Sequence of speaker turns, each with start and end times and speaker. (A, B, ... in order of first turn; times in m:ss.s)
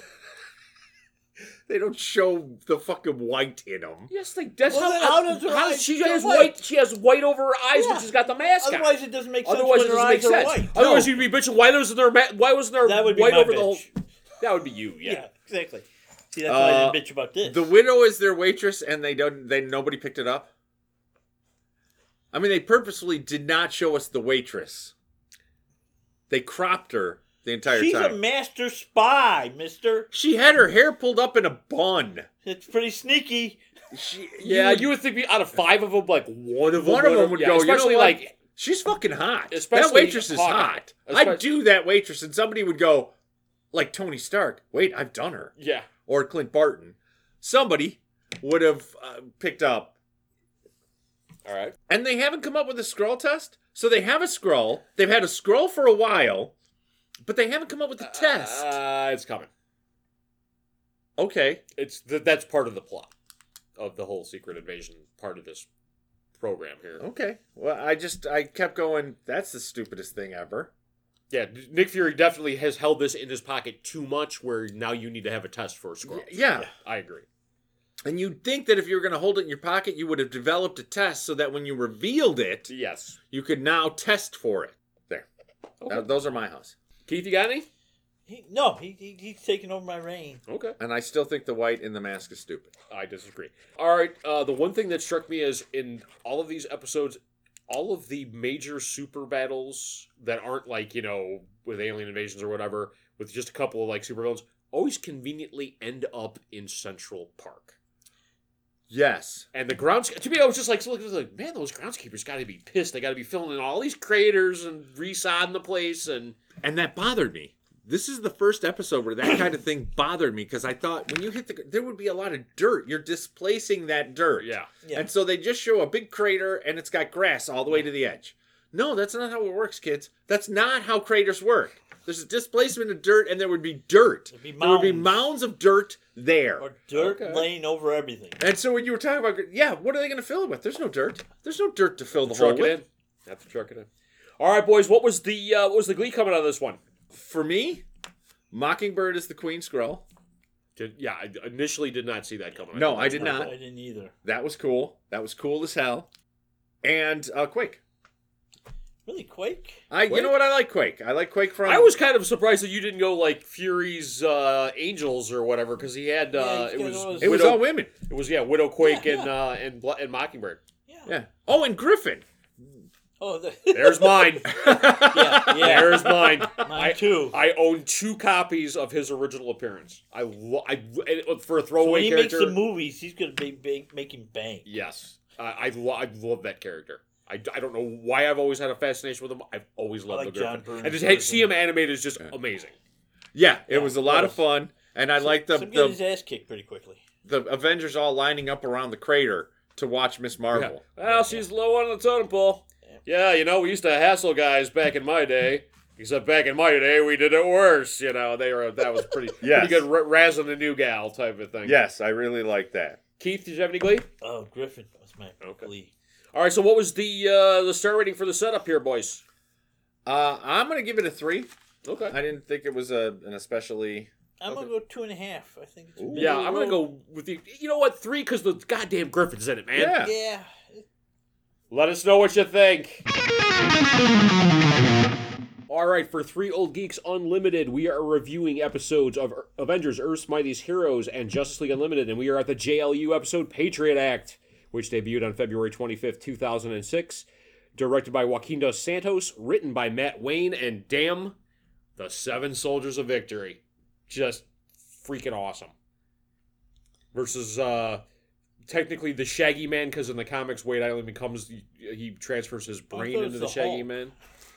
0:01.7-0:04.1 A
0:04.1-0:13.9 B
0:04.7-0:06.6 C
0:07.7-0:11.1 C
0:12.8-0:13.9 C
0:14.4-0:15.2 B
0:15.0-0:17.7 C
0:16.4-0:20.5 A
0:22.3-0:24.9 A
0:26.3-0:28.2 A
0:27.7-0:30.1 C
0:30.1-0:32.3 A
0:32.4-0:33.6 C
0:33.9-0:34.9 A
0:34.4-0:38.3 B
0:36.7-0:43.1 A
0:39.5-0:41.4 B
0:43.7-0:45.5 A
0:45.6-0:45.9 B
0:46.1-0:50.0 A
0:51.4-0:51.8 B
0:51.9-0:56.5 A
0:57.2-0:58.8 A
0:58.0-0:59.5 B
1:01.2-1:01.6 A
1:01.8-1:03.1 B
1:03.8-1:05.7 B
1:06.4-1:07.0 B
1:07.0-1:10.7 A
1:11.3-1:17.2 B
1:16.0-1:16.7 A
1:18.0-1:22.7 A
1:22.7-1:23.2 B
1:23.3-1:25.3 A
1:25.8-1:26.1 B
1:25.9-1:26.8 A
1:27.1-1:27.7 B
1:28.2-1:30.4 C
1:30.5-1:30.8 B
1:30.8-1:32.7 A
1:32.9-1:47.8 B
1:48.9-1:49.5 A
1:49.5-1:56.4 B
1:56.6-2:16.7 A
2:04.4-2:04.7 B
2:04.8-2:05.1 C
2:14.3-2:15.3 C
2:16.6-2:18.4 C
2:16.9-2:17.5 B
2:18.4-2:22.8 A
2:22.2-2:23.9 B
2:24.4-2:26.8 B
2:27.1-2:27.8 A
2:28.5-2:30.0 A
2:30.8-2:33.5 B
2:32.7-2:33.5 A
2:33.0-2:34.1 C
2:34.2-2:36.1 A
2:36.8-2:37.8 A
2:39.1-2:39.8 C
2:39.9-2:41.9 A
2:40.1-2:40.4 B
2:41.6-2:50.6 B
2:46.3-2:47.4 C
2:47.2-2:47.9 A
2:48.8-2:49.3 C
2:50.9-2:51.1 C
2:51.1-2:52.2 A
2:53.2-2:57.4 C
2:53.7-3:02.6 B
2:55.6-2:56.0 A
3:01.8-3:04.7 C
3:04.6-3:12.8 B
3:10.1-3:11.5 C
3:13.3-3:16.0 A
3:13.7-3:14.4 C
3:15.2-3:17.0 C
3:17.2-3:20.8 A
3:20.5-3:31.8 B
3:21.0-3:21.4 C
3:29.4-3:29.9 A
3:31.6-3:33.0 A
3:33.2-3:34.1 B
3:34.2-3:35.9 C
3:35.4-3:35.7 B
3:36.3-3:39.2 B
3:40.1-3:41.5 A
3:41.8-3:42.2 B
3:42.1-3:44.1 A
3:44.4-3:46.8 C
3:44.4-3:44.7 B
3:46.0-3:46.4 A
3:46.1-3:50.1 B
3:49.7-3:50.2 A
3:50.0-3:50.8 C
3:51.7-3:53.0 B
3:55.7-4:11.4 B
4:12.0-4:15.7 B
4:17.1-4:18.0 B
4:18.7-4:24.1 B
4:22.9-4:23.9 C